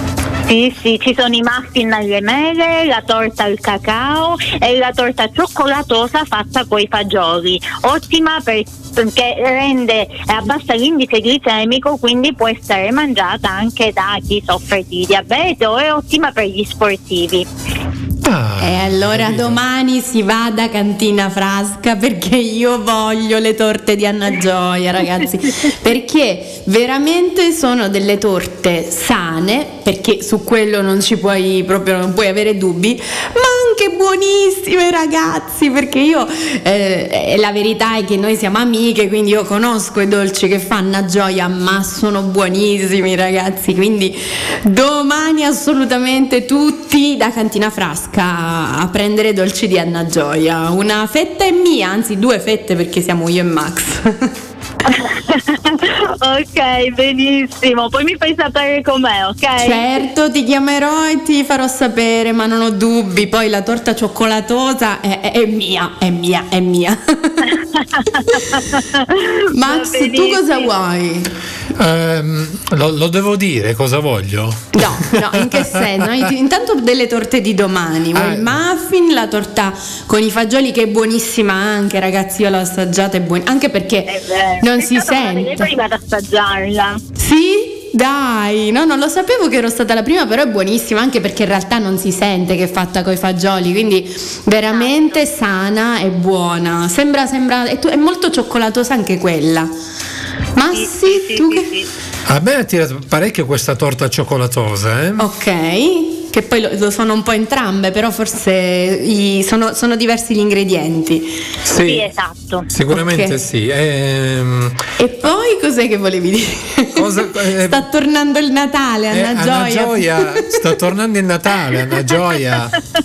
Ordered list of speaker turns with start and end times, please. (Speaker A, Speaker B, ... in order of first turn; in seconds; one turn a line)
Speaker A: 0.5-17.5
Speaker B: 18.2-19.6
Speaker C: 18.6-54.3
Speaker A: 54.9-60.0
Speaker C: 59.6-67.6
Speaker A: 67.8-70.7
Speaker C: 68.2-68.7
Speaker C: 69.5-71.3
Speaker B: 71.8-76.1
Speaker C: 74.8-85.7
Speaker B: 78.1-78.6
Speaker A: 84.1-87.0
Speaker C: 87.2-99.7
Speaker A: 94.7-95.2
Speaker C: 100.5-101.7
Speaker A: 100.7-101.9
Speaker B: 102.3-105.2
Speaker C: 105.2-111.4
Speaker B: 111.7-112.1
Speaker A: 111.8-112.7
Speaker B: 112.7-114.8
Speaker C: 112.9-113.4
Speaker C: 115.0-120.6
Speaker B: 117.0-117.9
Speaker B: 119.1-122.8